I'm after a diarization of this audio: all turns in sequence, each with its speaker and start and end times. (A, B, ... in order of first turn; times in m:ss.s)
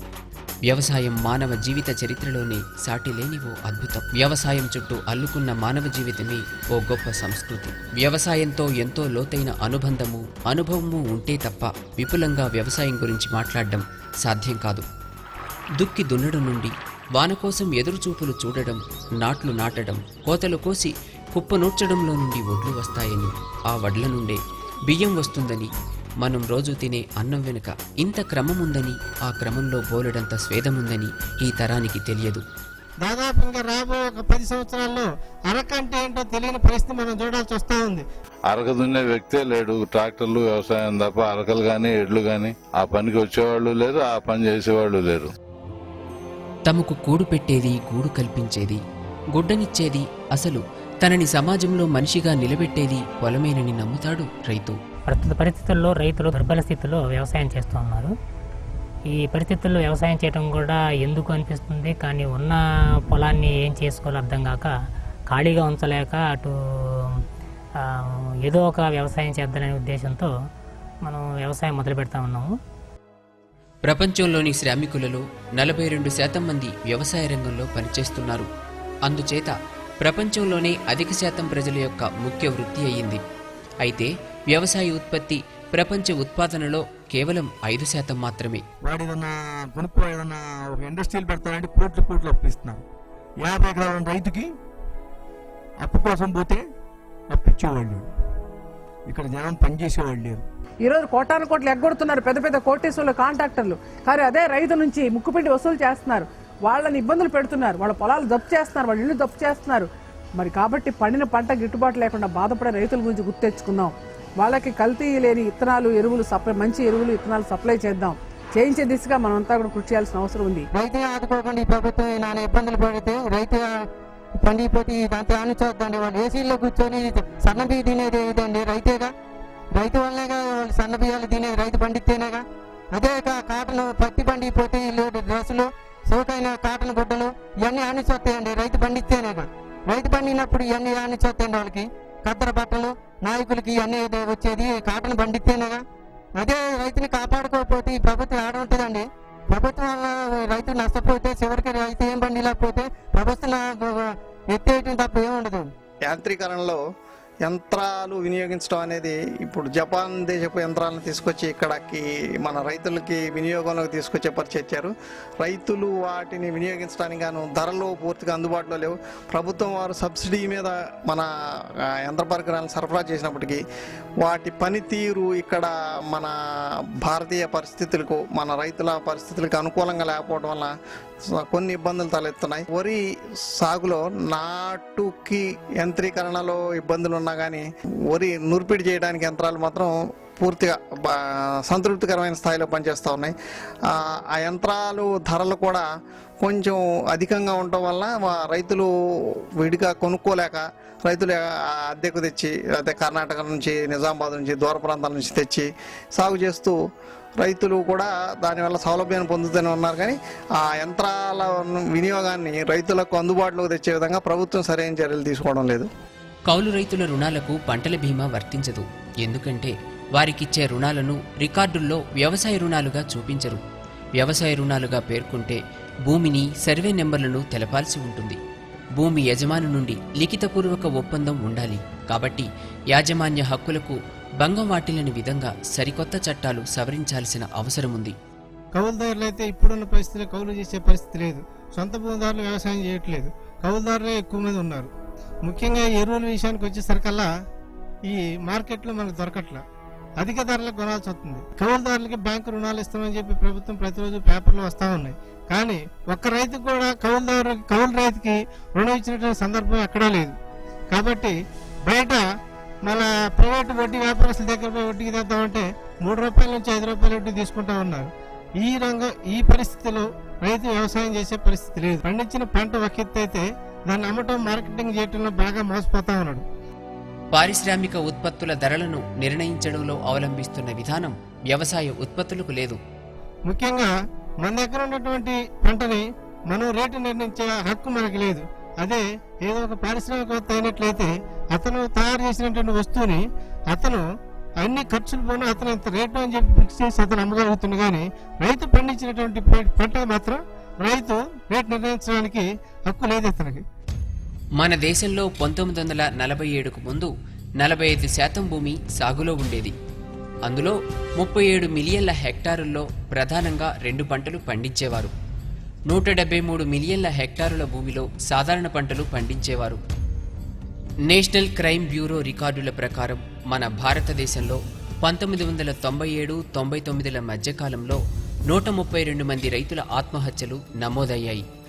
0:00.7-0:14.8 A
0:15.8-0:25.7 A
0:26.2-0:32.4 A
0:33.0-0:38.0 B
0:38.5-0:45.3 C
0:46.7-0:48.8 A
0:49.3-0:54.8 A
0:55.1-0:58.1 D
0:59.1-1:04.7 D
1:05.3-1:06.5 D
1:08.4-1:10.3 D
1:11.0-1:12.5 D
1:13.8-1:18.5 A
1:19.0-1:23.2 A
1:23.8-1:28.6 A
1:28.8-1:32.8 E
1:33.4-1:34.5 E
1:35.8-1:36.6 E
1:37.3-1:38.0 E
1:39.1-1:40.4 E
1:40.8-2:00.7 F
2:00.7-2:03.7 G
2:04.3-2:09.1 G
2:09.7-2:25.8 G
2:26.3-2:35.7 G
2:36.1-2:36.8 H
2:37.4-2:51.3 H
2:52.0-2:53.6 H
2:54.2-2:56.3 H
2:57.0-3:00.7 H
3:01.3-3:03.0 H
3:03.6-3:13.3 H
3:13.9-3:15.8 H
3:16.4-3:18.9 H
3:19.6-3:26.8 H
3:27.4-3:35.9 H
3:36.5-3:43.6 A
3:44.2-3:48.4 A
3:49.0-3:58.2 A
3:58.8-4:04.9 B
4:05.4-4:07.3 B
4:08.1-4:09.6 B
4:10.2-4:20.3 B
4:20.9-4:21.3 B
4:21.9-4:22.2 B
4:22.9-4:28.1 B
4:28.6-4:36.4 B
4:37.3-4:42.8 A
4:43.5-4:43.9 B
4:44.4-4:53.2 B
4:53.7-4:54.0 B
4:54.6-5:03.6 B
5:04.6-5:09.7 A
5:10.4-5:15.1 A
5:15.9-5:19.8 A
5:21.1-5:31.4 A